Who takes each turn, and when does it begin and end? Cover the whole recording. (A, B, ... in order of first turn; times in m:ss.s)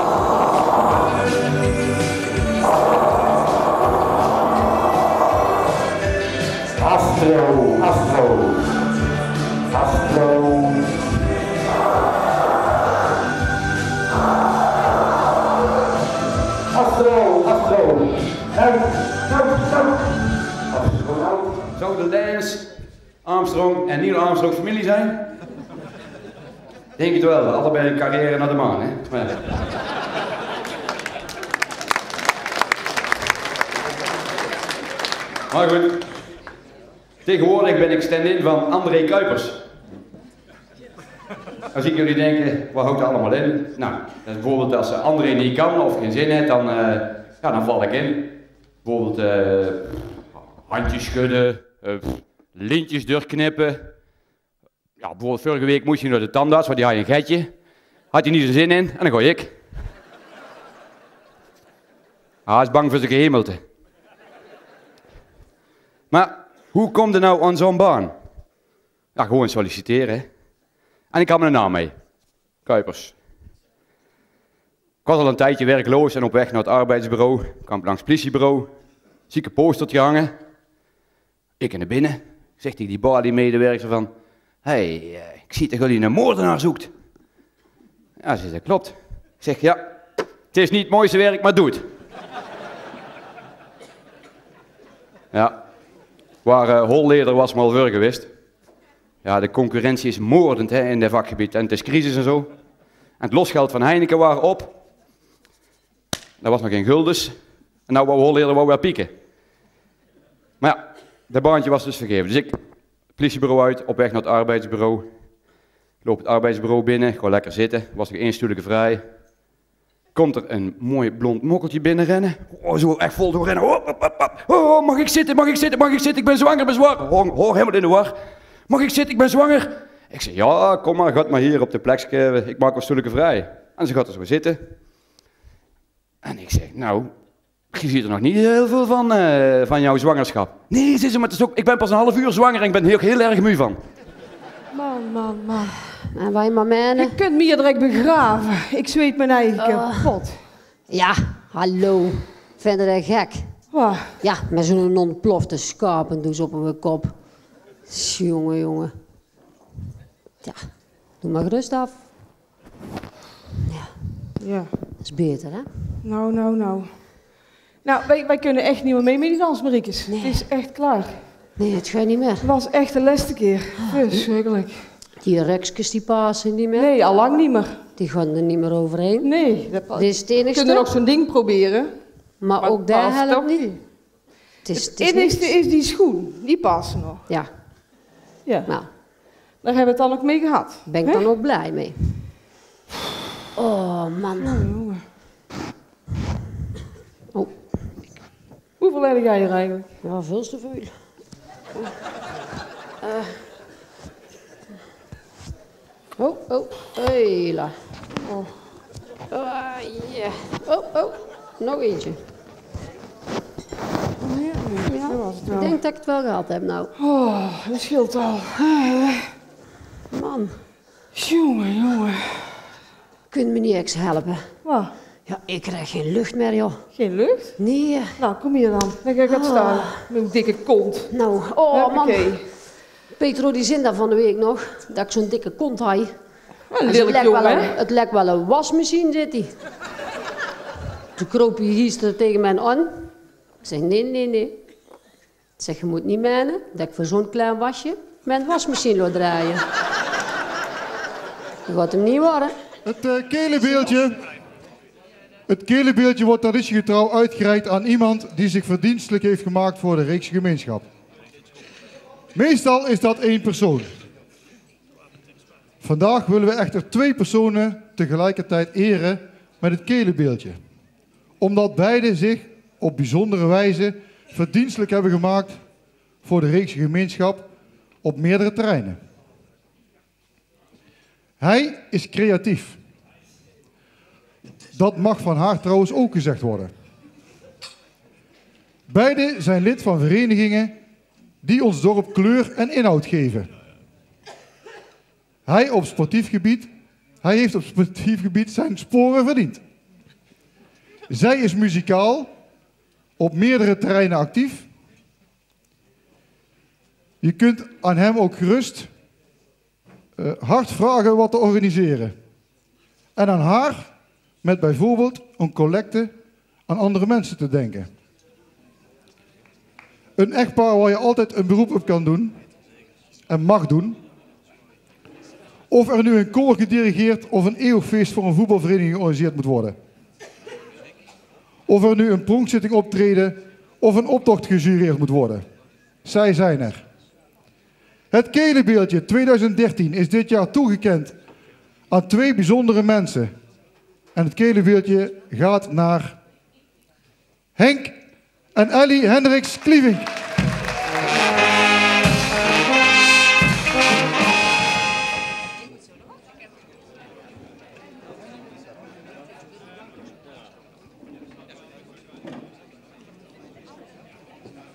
0:17.1-0:18.2 A
0:19.2-0:19.9 A
0:20.7-0:22.7 A
0:23.2-0:25.2 A
0:27.0-0:29.4 A
0:35.5-0:36.0 A
0:37.2-0:39.6 A
0:41.7-0:48.3 A
0:48.8-0:50.0 A
0:50.7-0:53.9 A
0:55.0-0:57.5 A
0:58.1-0:59.5 A
1:02.5-1:03.6 A
1:06.1-1:08.1 A
1:09.2-1:10.3 A
1:11.1-1:11.9 A
1:12.6-1:13.2 A
1:15.0-1:18.7 A
1:19.3-1:20.3 A
1:21.6-1:24.1 A
1:24.6-1:26.9 A
1:28.2-1:29.9 A
1:30.5-1:31.9 A
1:36.4-1:38.3 A
1:39.2-1:42.5 A
1:43.2-1:44.8 A
1:46.4-1:47.4 A
1:47.9-1:49.1 A
1:50.6-1:52.6 A
1:53.2-1:55.1 A
1:56.0-1:59.0 A
2:00.1-2:08.2 A
2:08.7-2:14.7 A
2:16.2-2:17.1 A
2:17.7-2:23.8 A
2:24.8-2:25.6 B
2:26.1-2:27.2 C
2:27.0-2:30.3 B
2:29.6-2:30.2 C
2:30.9-2:37.2 C
2:33.7-2:34.1 B
2:37.9-2:38.9 C
2:41.2-2:41.9 C
2:44.4-2:44.7 B
2:45.0-2:45.7 C
2:46.0-2:46.9 B
2:47.8-2:51.1 B
2:50.1-2:50.5 C
2:51.6-2:52.5 C
2:52.4-2:54.8 B
2:55.2-2:57.0 C
2:56.7-2:57.7 B
2:58.0-3:01.0 C
2:59.2-3:01.9 B
3:02.4-3:03.7 C
3:02.6-3:03.8 B
3:04.6-3:05.6 C
3:04.8-3:07.2 B
3:09.6-3:11.2 B
3:10.8-3:12.0 C
3:13.6-3:14.7 C
3:14.4-3:15.0 B
3:18.8-3:19.8 B
3:20.0-3:20.9 C
3:23.0-3:23.3 C
3:26.2-3:27.7 C
3:29.3-3:32.2 C
3:34.6-3:35.8 B
3:34.8-3:36.9 C
3:37.0-3:39.2 B
3:40.1-3:40.6 C
3:41.2-3:42.2 B
3:43.3-3:44.4 C
3:44.6-3:44.9 B
3:45.3-3:46.8 C
3:47.0-3:47.5 B
3:47.6-3:48.2 C
3:48.2-3:51.0 B
3:49.2-3:50.1 C
3:51.1-3:52.4 C
3:51.7-3:52.4 B
3:53.2-3:56.1 C
3:56.7-3:57.7 B
3:56.8-3:59.5 C
4:01.2-4:03.0 C
4:03.6-4:04.6 C
4:05.6-4:09.6 C
4:11.6-4:12.5 C
4:12.8-4:14.2 D
4:15.5-4:20.8 D
4:22.3-4:23.9 D
4:25.8-4:30.6 D
4:31.4-4:35.6 D
4:36.2-4:37.5 D
4:38.0-4:39.0 D
4:41.4-4:42.8 D
4:44.7-4:46.7 D
4:48.9-4:50.8 D
4:51.4-4:53.5 D
4:55.5-4:56.7 D
4:57.2-4:59.6 D
5:01.1-5:02.3 D
5:03.2-5:04.6 D
5:07.2-5:08.9 D
5:10.2-5:12.1 D
5:13.2-5:13.9 D
5:14.4-5:16.1 D
5:16.7-5:17.9 D
5:20.2-5:22.4 D
5:23.3-5:24.0 D
5:25.7-5:29.8 D
5:31.7-5:35.4 D
5:36.0-5:36.8 D
5:38.1-5:41.2 D
5:41.9-5:43.3 D
5:44.1-5:46.2 D
5:47.6-5:48.0 D
5:48.5-5:50.1 D